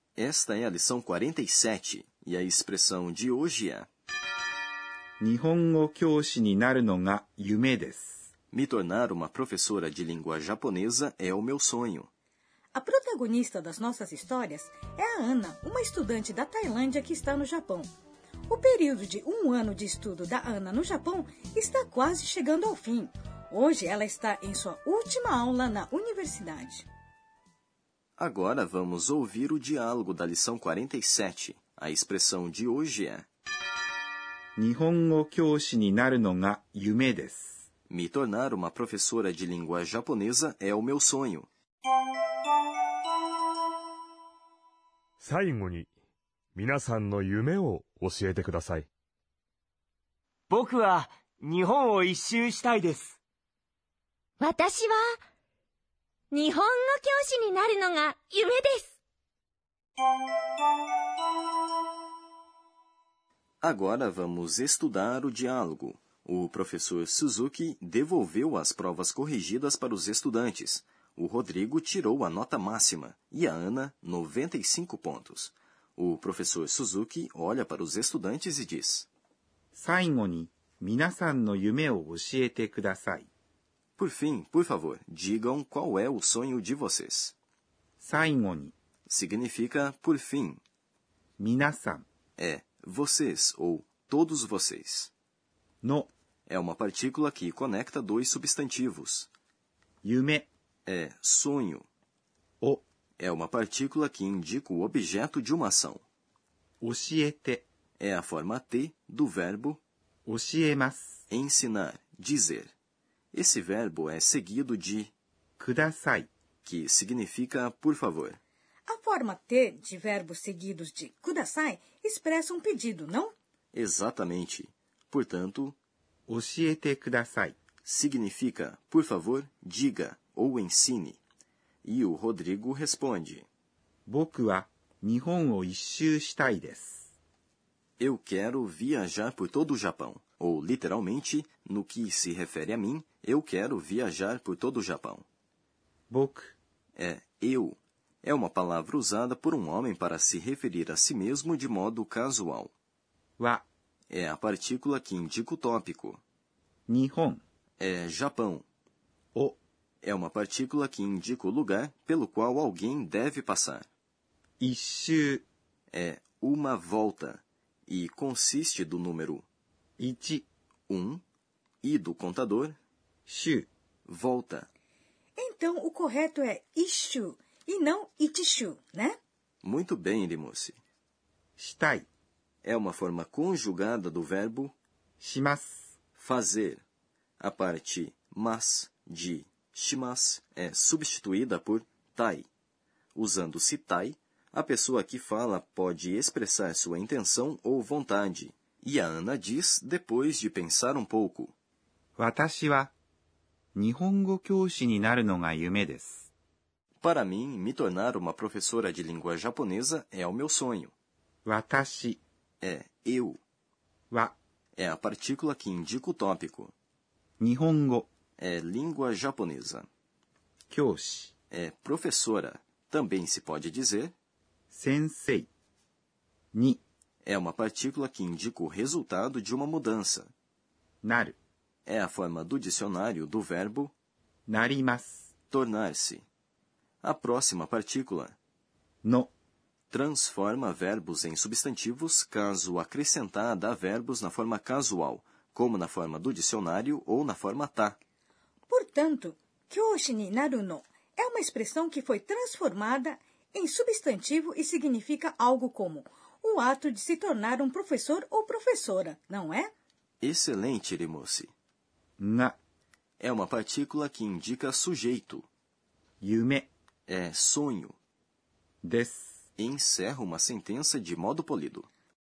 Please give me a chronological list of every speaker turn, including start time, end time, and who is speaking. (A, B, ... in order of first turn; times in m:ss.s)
0:00.2-0:03.9 A
0:05.2-0:08.2 B
0:08.5-0:12.1 A
0:12.7-0:17.9 C
0:18.5-0:26.9 C
0:28.2-0:33.3 A
0:34.6-0:37.6 B
0:37.9-0:41.5 A
0:45.2-0:45.9 D
0:46.5-0:48.9 D
0:50.5-0:53.2 E
0:54.4-0:55.2 F
0:56.3-0:58.9 F
1:03.6-1:19.1 A
1:19.7-1:23.3 B
1:24.0-1:27.3 A
1:28.0-1:28.7 B
1:29.1-1:30.6 A
1:31.4-1:32.0 B
1:32.4-1:35.1 A
1:35.8-1:36.1 B
1:36.5-1:39.3 A
1:40.0-1:40.5 B
1:40.9-1:41.8 A
1:43.2-1:46.0 A
1:46.8-1:47.6 B
1:48.0-1:49.8 A
1:50.2-1:51.2 B
1:51.3-1:52.7 A
1:53.3-1:55.1 A
1:55.6-1:56.3 B
1:56.6-1:58.4 A
1:58.9-2:03.3 C
2:03.7-2:05.8 A
2:06.3-2:07.6 B
2:07.8-2:11.2 A
2:11.8-2:13.4 A
2:14.1-2:17.1 B
2:18.0-2:25.2 A
2:26.1-2:26.5 B
2:27.0-2:32.7 A
2:33.4-2:33.6 B
2:34.1-2:36.2 A
2:36.9-2:37.4 B
2:37.8-2:38.6 A
2:40.0-2:43.9 A
2:44.6-2:45.4 B
2:45.9-2:49.4 A
2:50.0-2:50.4 B
2:50.9-2:51.2 A
2:51.8-2:52.8 A
2:53.3-2:53.7 B
2:54.1-2:54.7 A
2:55.4-2:59.2 C
2:59.6-3:00.8 A
3:01.6-3:02.0 B
3:02.6-3:04.7 A
3:05.2-3:05.9 B
3:06.2-3:06.8 A
3:07.4-3:12.5 A
3:13.1-3:21.5 A
3:22.2-3:22.9 B
3:23.7-3:26.3 B
3:27.0-3:30.9 A
3:31.4-3:32.2 B
3:32.6-3:33.4 A
3:34.8-3:36.7 A
3:37.4-3:38.1 B
3:38.4-3:39.9 A
3:40.7-3:41.3 B
3:41.5-3:44.1 A
3:44.7-3:45.5 B
3:46.5-3:46.8 B
3:47.2-3:50.3 A
3:51.0-3:51.4 B
3:51.8-3:53.9 A
3:54.5-3:55.3 B
3:55.5-3:56.2 A
3:57.0-3:58.3 A
3:59.0-3:59.3 B
3:59.9-4:08.0 A
4:08.7-4:19.7 C
4:20.2-4:21.5 A
4:22.2-4:22.6 B
4:23.2-4:25.4 A
4:26.2-4:26.7 B
4:27.1-4:28.0 A
4:28.8-4:29.4 B
4:29.6-4:31.9 A